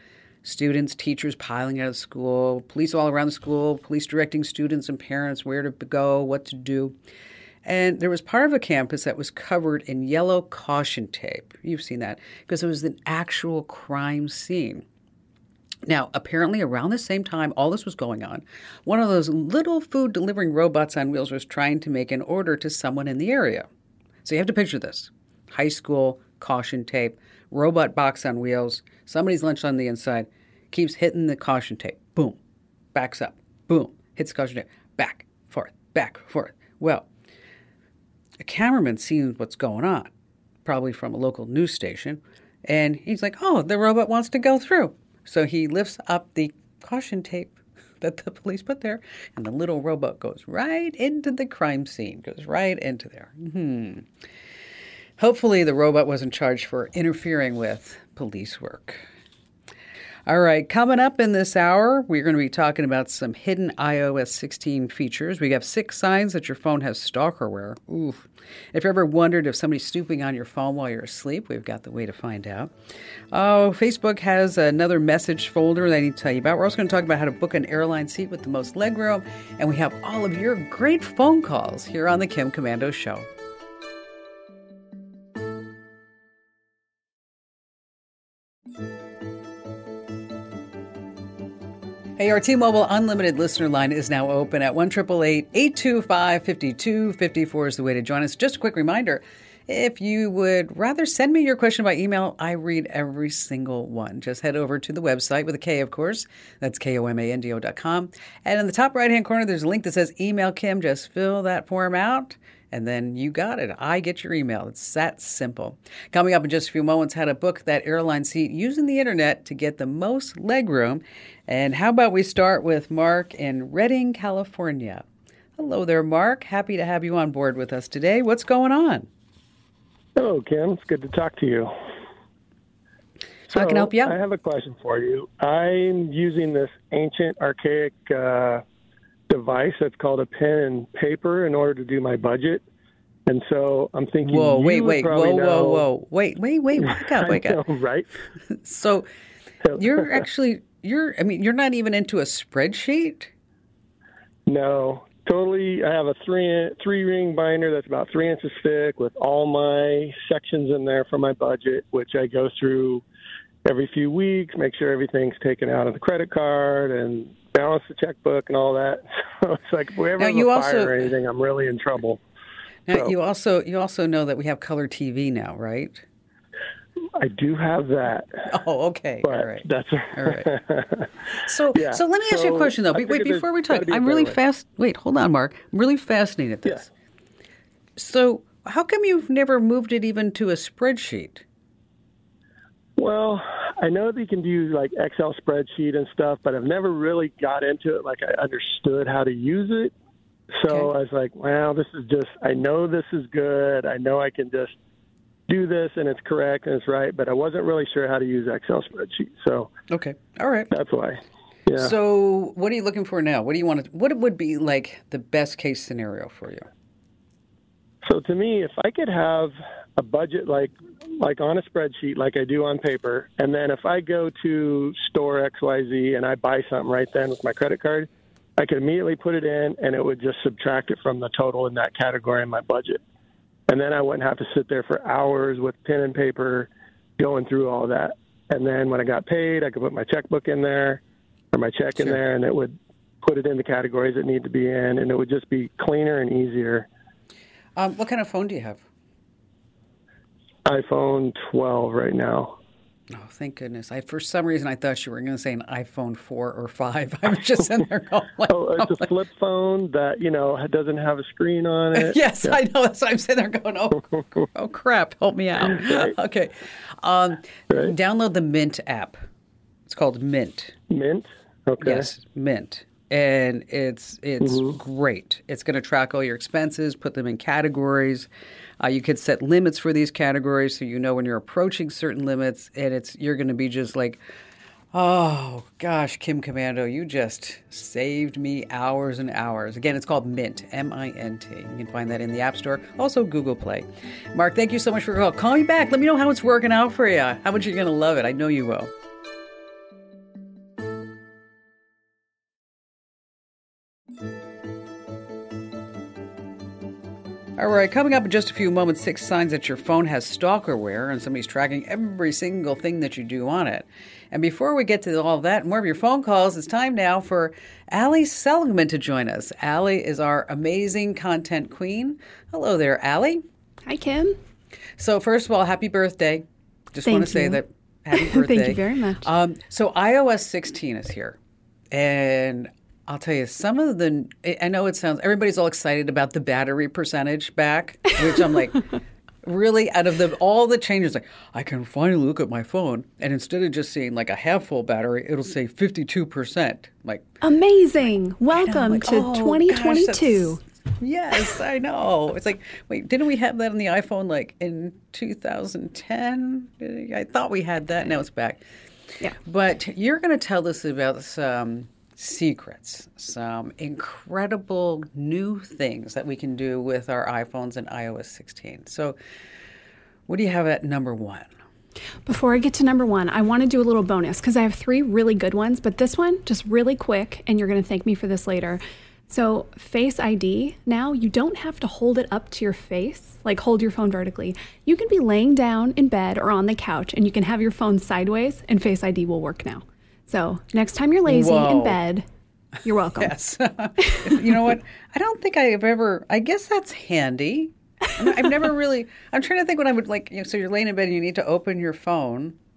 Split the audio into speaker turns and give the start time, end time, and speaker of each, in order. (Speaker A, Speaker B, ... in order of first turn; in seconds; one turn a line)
Speaker A: 0.4-7.0
Speaker A: 7.6-14.8
Speaker A: 15.9-23.7
Speaker A: 24.2-32.4
Speaker A: 32.9-37.1
Speaker A: 38.4-40.1
Speaker A: 40.6-54.1
Speaker A: 55.2-59.0
Speaker A: 60.3-72.7
Speaker A: 73.3-83.3
Speaker A: 92.2-125.0
Speaker A: 125.6-129.1
Speaker B: 130.2-131.7
Speaker A: 133.5-134.2
Speaker B: 133.5-138.6
Speaker B: 139.3-142.6
Speaker B: 143.3-145.8
Speaker A: 144.2-147.6
Speaker B: 146.8-148.1
Speaker A: 148.5-149.1
Speaker B: 149.7-150.1
Speaker A: 149.8-153.3
Speaker B: 154.5-163.0
Speaker B: 163.7-172.2
Speaker A: 170.2-171.1
Speaker A: 172.9-176.0
Speaker B: 177.2-178.5
Speaker A: 178.5-180.5
Speaker B: 179.2-181.1
Speaker A: 181.3-186.9
Speaker B: 181.7-184.4
Speaker A: 188.0-191.4
Speaker B: 193.0-199.9
Speaker B: 200.5-204.7
Speaker B: 205.5-209.7
Speaker A: 209.9-210.7
Speaker B: 210.7-211.9
Speaker A: 211.8-216.7
Speaker B: 218.0-233.0
Speaker B: 233.7-241.0
Speaker B: 241.5-246.9
Speaker A: 247.8-248.8
Speaker B: 250.7-252.6
Speaker A: 253.1-259.1
Speaker B: 258.5-262.6
Speaker A: 261.9-269.2
Speaker B: 265.8-266.1
Speaker A: 269.9-270.8
Speaker B: 270.9-272.1
Speaker A: 271.8-278.3
Speaker B: 274.4-274.7
Speaker A: 278.8-284.2
Speaker A: 284.9-298.9
Speaker A: 307.6-323.4
Speaker C: 323.9-324.4
Speaker A: 325.0-331.4
Speaker C: 327.1-327.6
Speaker C: 328.1-329.3
Speaker A: 331.9-338.9
Speaker A: 339.4-347.2
Speaker C: 347.4-350.6
Speaker A: 348.5-358.6
Speaker A: 359.4-369.2
Speaker A: 370.3-371.5
Speaker C: 372.3-392.2
Speaker A: 391.3-392.0
Speaker C: 392.8-393.3
Speaker A: 393.2-402.6
Speaker C: 394.0-394.3